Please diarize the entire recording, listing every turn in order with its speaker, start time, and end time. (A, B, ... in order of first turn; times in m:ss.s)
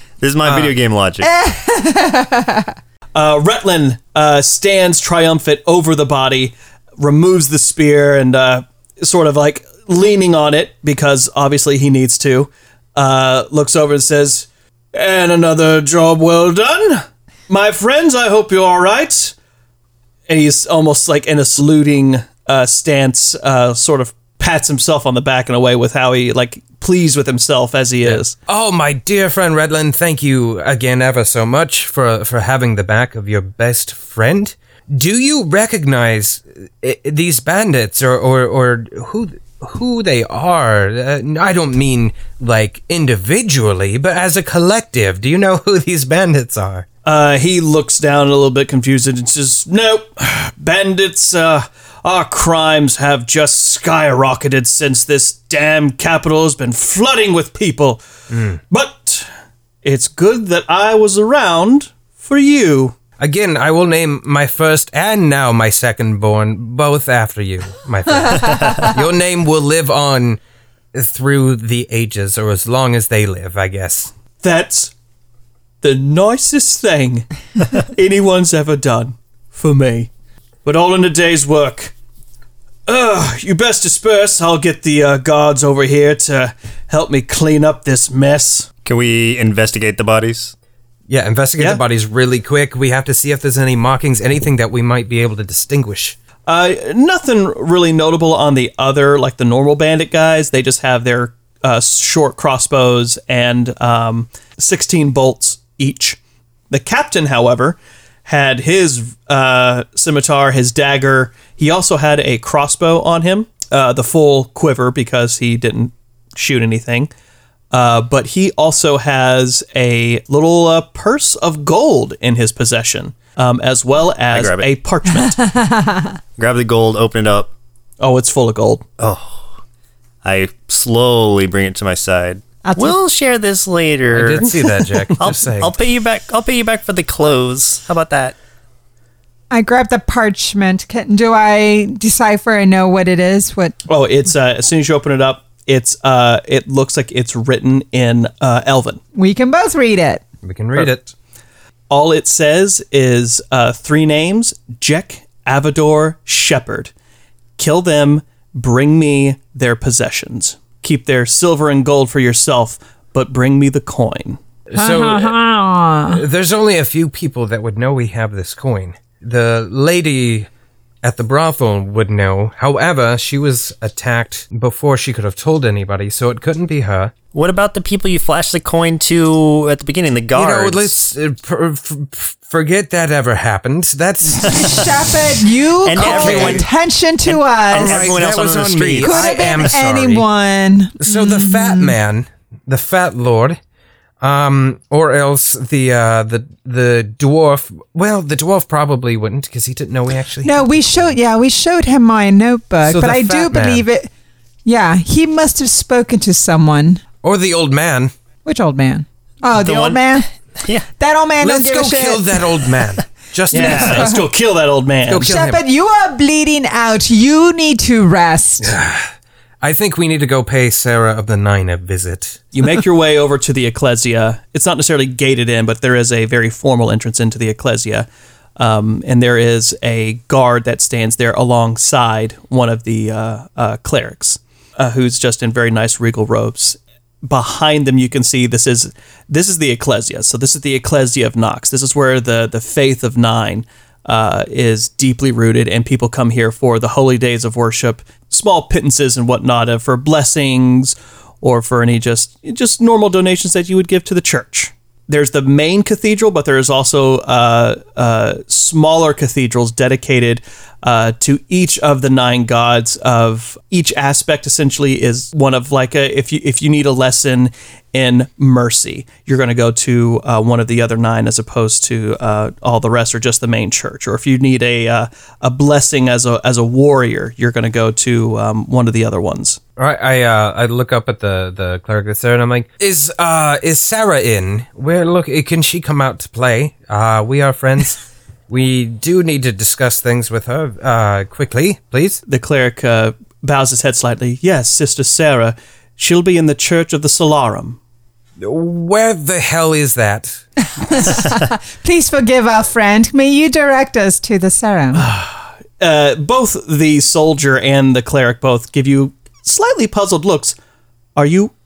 0:00.2-0:01.3 A
0:01.2-0:02.7 B
0:03.2-0:19.4 C
0:20.3-0:28.3 C
0:28.0-0:46.9 D
0:47.0-0:58.0 C
0:58.3-0:58.6 D
0:58.7-0:59.3 C
0:59.8-1:03.0 C
1:03.2-1:10.4 D
1:08.2-1:09.0 B
1:10.9-1:14.1 D
1:14.4-1:14.9 C
1:15.8-1:20.1 C
1:20.6-1:21.9 C
1:22.9-1:28.7 C
1:28.8-1:30.5 A
1:31.1-1:36.2 D
1:36.5-1:46.2 C
1:46.7-1:57.1 C
1:57.7-2:05.4 C
2:04.3-2:04.7 A
2:05.2-2:06.2 B
2:06.4-2:07.5 A
2:08.0-2:08.8 C
2:09.0-2:09.4 A
2:10.2-2:14.6 A
2:12.6-2:13.0 B
2:14.1-2:15.7 D
2:15.2-2:18.4 A
2:19.5-2:23.8 B
2:23.9-2:29.0 C
2:29.2-2:30.2 B
2:30.4-2:31.1 D
2:31.9-2:36.9 C
2:37.6-2:44.4 C
2:44.7-2:45.4 D
2:44.8-2:46.2 B
2:46.1-2:50.5 D
2:51.0-2:57.1 D
2:57.3-3:01.0 A
3:00.4-3:04.9 D
3:04.3-3:08.1 B
3:04.5-3:04.8 A
3:05.8-3:06.7 A
3:05.9-3:06.6 D
3:07.3-3:09.7 A
3:07.8-3:10.2 D
3:09.0-3:12.0 B
3:11.0-3:13.6 D
3:14.2-3:21.1 D
3:20.4-3:24.1 B
3:22.8-3:23.9 D
3:24.6-3:27.0 B
3:27.2-3:28.1 D
3:28.4-3:30.3 B
3:29.5-3:30.0 A
3:30.6-3:30.9 A
3:31.0-3:32.4 B
3:31.4-3:34.2 D
3:33.5-3:35.3 C
3:33.6-3:34.2 B
3:35.1-3:35.6 D
3:35.2-3:38.8 B
3:38.6-3:39.1 D
3:39.6-3:42.4 D
3:42.5-4:39.6 C
4:39.8-4:52.2 D
4:52.3-4:57.8 C
4:58.4-5:00.4 D
5:00.8-5:05.1 B
5:04.9-5:10.6 C
5:11.2-5:11.5 C